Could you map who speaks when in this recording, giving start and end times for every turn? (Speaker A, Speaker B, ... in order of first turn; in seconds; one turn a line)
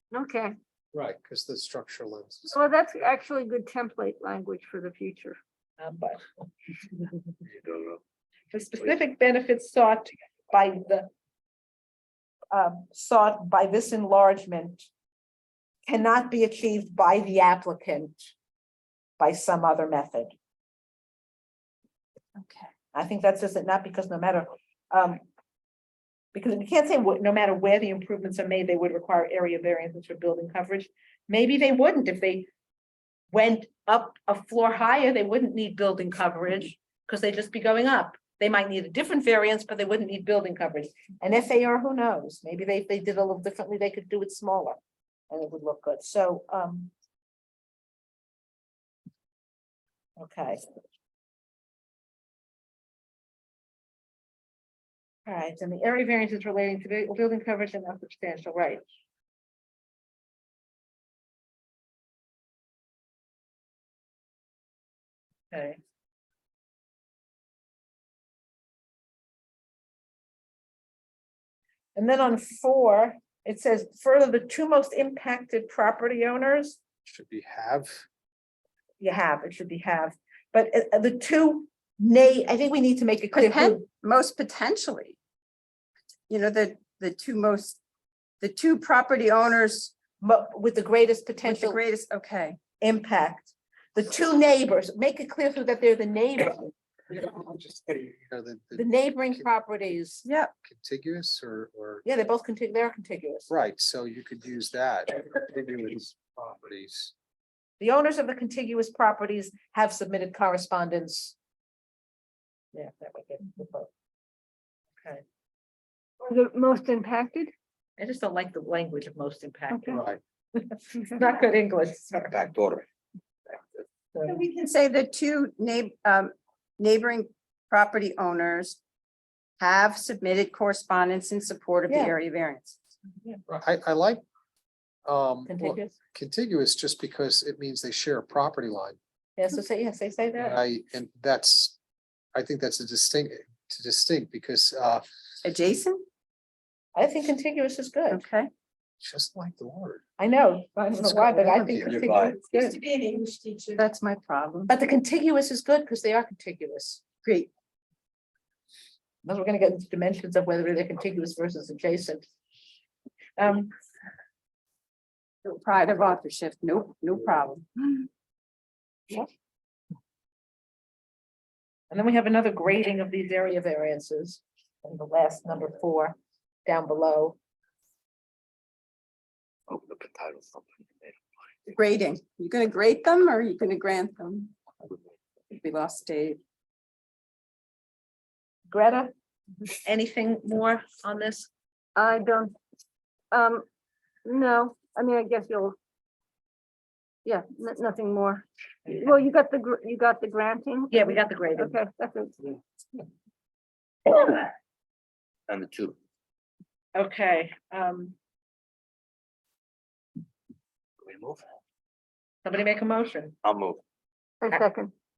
Speaker A: 0.1-0.6
Speaker B: 0.9-2.6
Speaker A: 2.5-5.4
Speaker C: 5.8-6.2
Speaker D: 7.5-8.0
Speaker C: 8.5-11.1
Speaker C: 12.5-14.9
Speaker C: 15.9-18.2
Speaker C: 19.2-20.3
Speaker E: 22.4-22.7
Speaker C: 22.9-25.2
Speaker C: 26.3-32.5
Speaker C: 33.3-44.8
Speaker C: 45.3-46.9
Speaker C: 50.2-50.6
Speaker C: 55.3-58.8
Speaker C: 65.5-65.8
Speaker C: 72.0-76.8
Speaker B: 77.1-78.0
Speaker C: 79.0-83.9
Speaker E: 83.3-85.2
Speaker E: 86.3-87.8
Speaker E: 88.4-89.9
Speaker C: 90.2-91.8
Speaker E: 91.4-92.6
Speaker C: 92.8-96.7
Speaker B: 97.1-99.5
Speaker C: 98.8-100.3
Speaker E: 100.2-100.5
Speaker B: 100.6-102.0
Speaker C: 102.0-103.5
Speaker B: 103.5-107.1
Speaker C: 107.8-111.4
Speaker C: 112.7-113.9
Speaker A: 116.2-117.5
Speaker C: 118.0-120.0
Speaker B: 119.9-120.2
Speaker C: 120.5-122.3
Speaker D: 122.3-122.8
Speaker E: 124.2-128.8
Speaker E: 129.6-132.8
Speaker C: 131.9-132.2
Speaker B: 133.5-134.2
Speaker B: 135.1-139.0
Speaker C: 135.5-135.9
Speaker C: 139.4-140.6
Speaker B: 140.4-141.8
Speaker B: 142.3-145.1
Speaker E: 145.4-146.1
Speaker C: 146.9-148.2
Speaker E: 148.1-148.5
Speaker B: 149.0-150.0
Speaker C: 150.2-152.8
Speaker E: 151.0-154.7
Speaker B: 151.5-151.9
Speaker D: 151.9-152.4
Speaker C: 154.7-157.0
Speaker E: 157.2-157.5
Speaker C: 159.2-162.3
Speaker C: 163.4-163.7
Speaker E: 165.4-168.1
Speaker C: 171.9-177.4
Speaker D: 179.7-181.2
Speaker E: 181.7-184.6
Speaker E: 185.5-186.4
Speaker C: 188.7-189.1
Speaker C: 189.8-191.5
Speaker A: 192.0-192.6
Speaker A: 193.3-193.6
Speaker A: 194.2-195.8
Speaker A: 197.2-202.5
Speaker C: 200.9-201.8
Speaker D: 205.5-206.0
Speaker C: 206.9-208.2
Speaker D: 211.0-211.4
Speaker C: 212.4-213.3
Speaker D: 213.4-213.8
Speaker A: 214.4-214.9